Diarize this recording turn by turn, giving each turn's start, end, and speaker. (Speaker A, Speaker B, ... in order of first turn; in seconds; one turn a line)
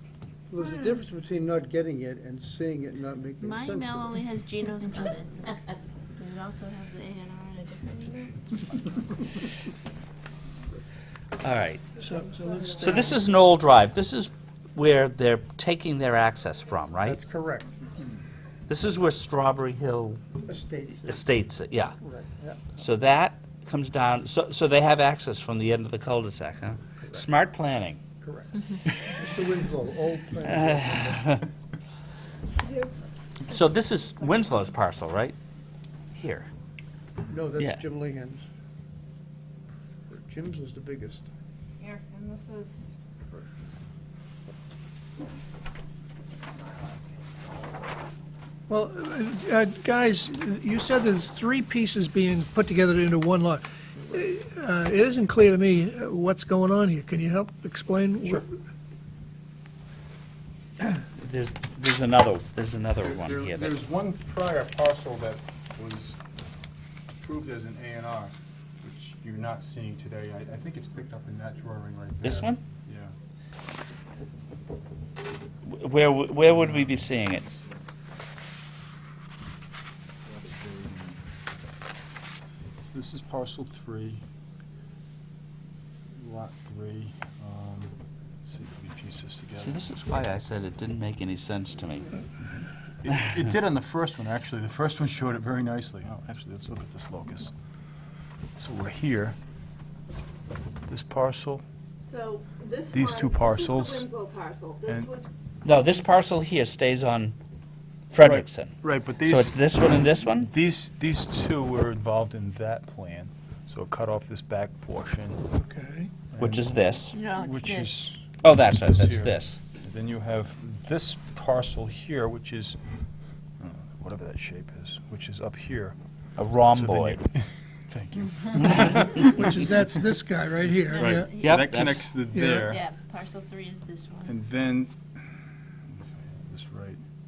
Speaker A: 0.5-4.2
Speaker B: 3.4-8.6
Speaker C: 11.4-11.8
Speaker A: 11.9-13.2
Speaker D: 12.0-13.2
Speaker C: 12.8-17.2
Speaker A: 17.0-17.7
Speaker C: 18.7-20.2
Speaker A: 20.5-21.4
Speaker C: 20.9-21.9
Speaker A: 22.0-22.8
Speaker C: 22.8-28.0
Speaker A: 28.2-31.4
Speaker C: 30.4-31.4
Speaker E: 32.6-34.6
Speaker C: 33.5-35.3
Speaker C: 36.1-36.5
Speaker A: 37.3-38.5
Speaker C: 37.6-37.8
Speaker A: 40.1-41.3
Speaker E: 41.8-43.0
Speaker E: 46.6-47.1
Speaker D: 48.7-58.5
Speaker C: 61.0-63.8
Speaker F: 63.0-66.2
Speaker F: 67.2-73.1
Speaker C: 72.2-72.6
Speaker C: 75.7-77.5
Speaker F: 76.5-77.6
Speaker F: 80.3-81.2
Speaker F: 82.9-84.2
Speaker F: 86.1-89.8
Speaker C: 89.6-92.1
Speaker F: 93.0-97.5
Speaker F: 98.6-99.3
Speaker F: 100.9-101.6
Speaker E: 102.0-105.3
Speaker F: 102.9-104.1
Speaker F: 104.8-105.2
Speaker C: 105.6-107.3
Speaker C: 108.1-110.5
Speaker F: 108.2-115.4
Speaker D: 115.6-116.1
Speaker F: 116.3-116.7
Speaker C: 116.4-117.2
Speaker B: 117.1-118.1
Speaker F: 117.3-122.8
Speaker C: 118.4-119.6
Speaker F: 123.6-126.0
Speaker C: 126.3-127.2
Speaker F: 126.7-130.1
Speaker D: 128.7-131.4
Speaker B: 130.8-131.6
Speaker F: 130.9-132.8
Speaker C: 131.3-132.1
Speaker D: 132.3-132.7
Speaker B: 132.6-134.3
Speaker F: 134.2-135.2
Speaker F: 135.9-137.0